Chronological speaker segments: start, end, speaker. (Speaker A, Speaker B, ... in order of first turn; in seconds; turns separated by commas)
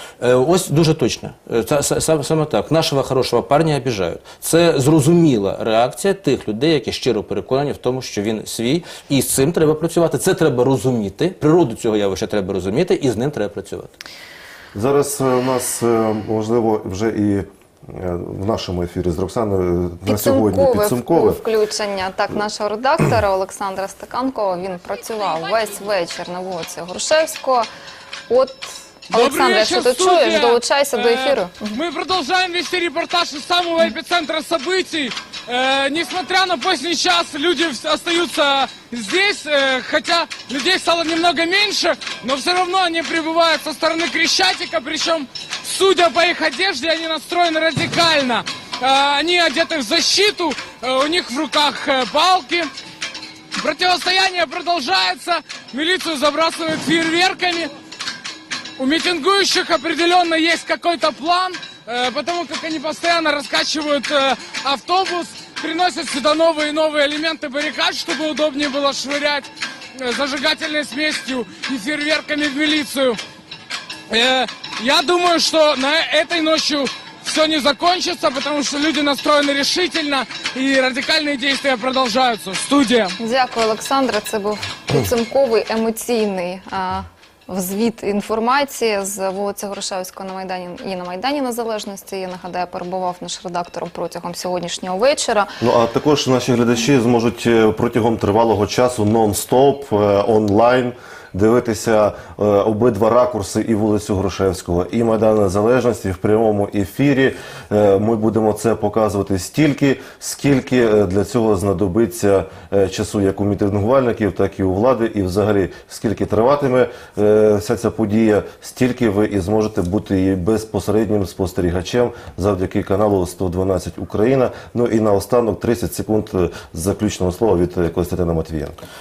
Speaker A: 0.2-13.9, Speaker B: 14.7-21.4, Speaker C: 20.1-27.7, Speaker C: 28.3-31.8, Speaker D: 29.1-52.7, Speaker D: 53.5-57.7, Speaker D: 58.8-73.2, Speaker D: 74.1-83.2, Speaker C: 83.2-95.5, Speaker B: 95.6-128.8